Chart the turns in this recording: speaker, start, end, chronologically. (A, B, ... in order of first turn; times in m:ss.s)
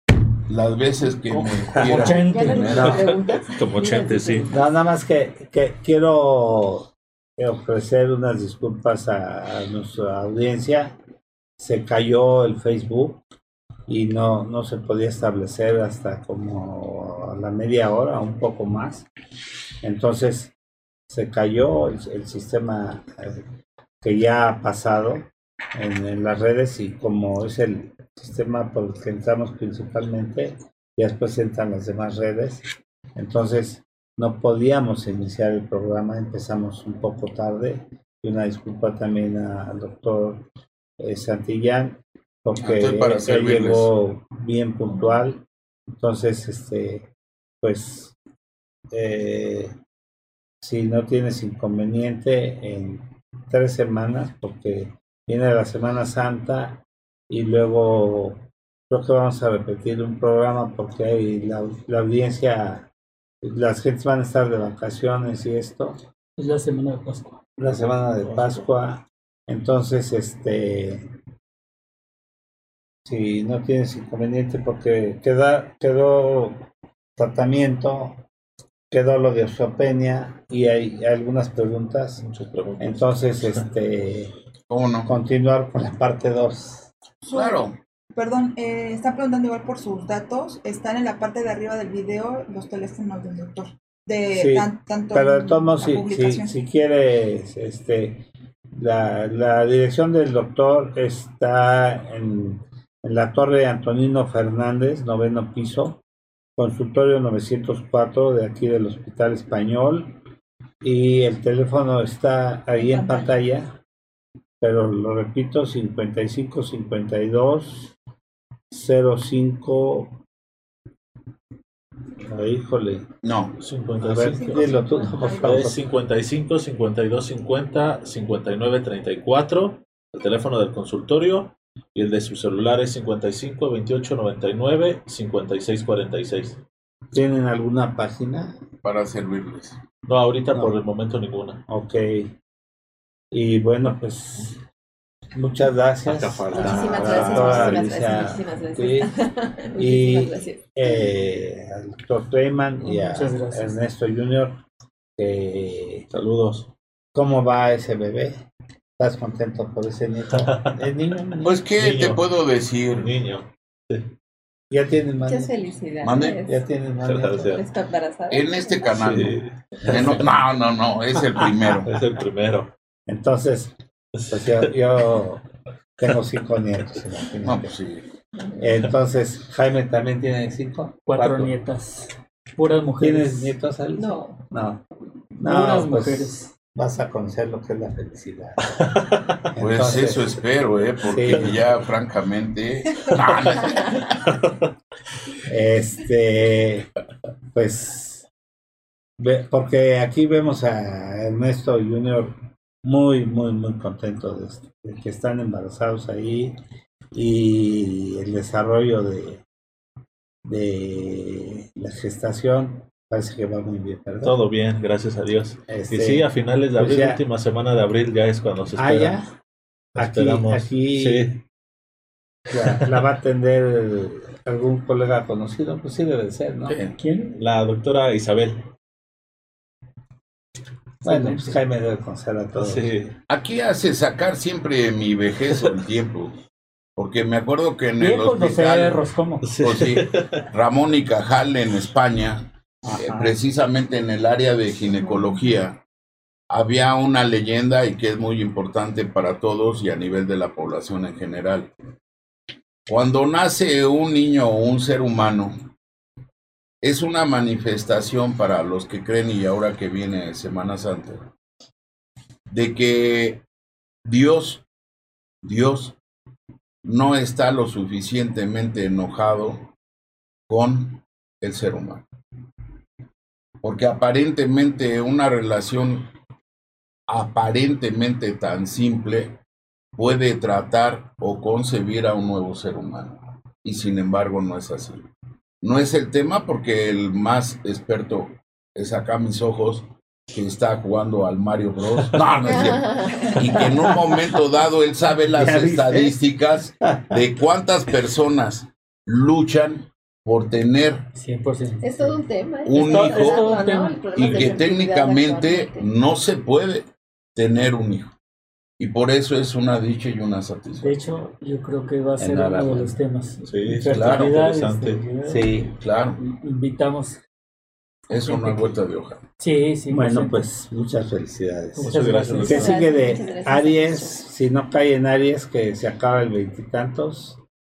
0:00.5-0:03.1 A
0:01.5-0:02.9 B
0:01.7-0:02.1 C
0:01.9-0:04.6 D
0:02.5-0:04.5 E
0:04.5-0:11.0 C
0:11.6-0:13.2 C
0:13.9-0:19.1 C
0:19.8-0:20.5 C
0:21.1-0:23.5 C
0:24.0-0:32.6 C
0:33.2-0:40.5 C
0:41.0-0:45.4 C
0:42.6-0:43.9 A
0:46.0-0:47.1 C
0:47.6-0:48.2 C
0:48.9-0:49.8 C
0:50.6-1:02.9 C
1:03.4-1:06.0 C
1:06.4-1:07.4 B
1:07.6-1:11.1 C
1:08.3-1:08.6 E
1:13.0-1:18.2 C
1:18.9-1:22.2 C
1:22.2-1:23.6 E
1:22.8-1:24.3 C
1:24.7-1:25.1 A
1:25.0-1:26.9 C
1:27.3-1:36.5 F
1:27.3-1:27.8 A
1:34.3-1:46.0 C
1:46.6-1:50.2 C
1:50.8-1:53.8 C
1:52.8-1:53.3 F
1:54.6-1:57.9 C
1:58.7-2:00.2 C
2:02.2-2:03.1 C
2:03.2-2:03.6 A
2:03.6-2:16.6 E
2:04.0-2:06.0 C
2:04.3-2:05.7 F
2:17.1-2:18.6 C
2:18.8-2:19.8 A
2:20.1-2:21.6 E
2:21.7-2:22.3 C
2:23.3-2:24.6 C
2:25.3-2:29.1 C
2:26.1-2:28.2 E
2:26.5-2:31.1 D
2:29.8-2:34.6 C
2:32.8-2:33.8 B
2:35.2-2:36.1 C
2:36.1-2:36.7 E
2:37.1-2:38.4 C
2:39.0-2:41.6 C
2:40.4-2:40.8 E
2:41.4-2:43.1 A
2:41.8-2:42.2 E
2:42.9-2:44.1 E
2:44.7-2:45.5 C
2:45.3-2:46.6 D
2:46.0-2:46.4 A
2:46.4-2:47.6 C
2:47.0-2:47.6 E
2:47.4-2:48.8 D
2:48.3-2:51.9 A
2:48.9-2:50.3 E
2:51.4-2:52.7 E
2:53.1-2:53.8 C
2:54.2-2:54.7 E
2:54.3-2:55.4 C
2:56.0-2:57.7 C
2:57.4-2:58.1 A
2:58.6-3:01.5 C
3:01.1-3:03.6 B
3:03.0-3:04.8 C
3:04.0-3:04.4 D
3:05.4-3:10.4 C
3:05.4-3:06.5 B
3:08.7-3:09.4 E
3:09.6-3:14.0 A
3:11.0-3:11.8 C
3:13.2-3:13.5 E
3:13.7-3:14.0 D
3:14.2-3:14.5 E
3:15.4-3:16.9 C
3:17.5-3:18.2 C
3:19.2-3:26.6 C
3:27.1-3:29.4 C
3:30.4-3:34.4 C
3:34.2-3:39.2 E
3:35.7-3:37.2 C
3:38.8-3:39.3 C
3:40.0-3:41.4 E
3:40.0-3:41.4 C
3:42.5-3:46.8 C
3:42.6-3:42.9 E
3:46.7-3:47.0 A
3:47.0-3:47.4 B
3:47.4-3:48.7 E
3:51.0-3:51.5 B
3:51.0-3:52.9 C
3:52.6-3:53.2 E
3:53.3-3:56.4 A
3:57.0-3:59.0 A
3:58.0-3:59.4 B
3:59.4-4:00.5 E
3:59.6-4:05.8 A
4:06.5-4:11.7 A
4:12.9-4:15.7 A
4:16.8-4:21.3 A
4:22.5-4:23.4 A
4:24.0-4:24.6 A
4:25.4-4:26.0 A
4:26.8-4:29.7 A
4:30.5-4:32.0 A
4:33.6-4:36.1 A
4:37.1-4:39.4 A
4:40.0-4:45.1 A
4:45.6-5:01.1 A
4:52.5-4:53.7 D
4:53.4-4:54.2 C
4:55.3-4:56.2 C
4:56.8-4:57.2 C
5:01.2-5:02.2 B
5:01.8-5:05.9 D
5:02.6-5:03.5 A
5:02.8-5:04.6 B
5:04.2-5:08.1 A
5:08.8-5:11.0 A
5:10.8-5:17.2 B
5:12.2-5:13.0 C
5:13.4-5:15.1 E
5:13.9-5:14.3 A
5:15.3-5:15.7 C
5:15.8-5:16.2 A
5:18.1-5:19.2 A
5:18.2-5:18.8 B
5:19.4-5:20.5 B
5:19.9-5:27.4 C
5:21.8-5:22.9 B
5:21.8-5:22.9 E
5:22.5-5:24.2 D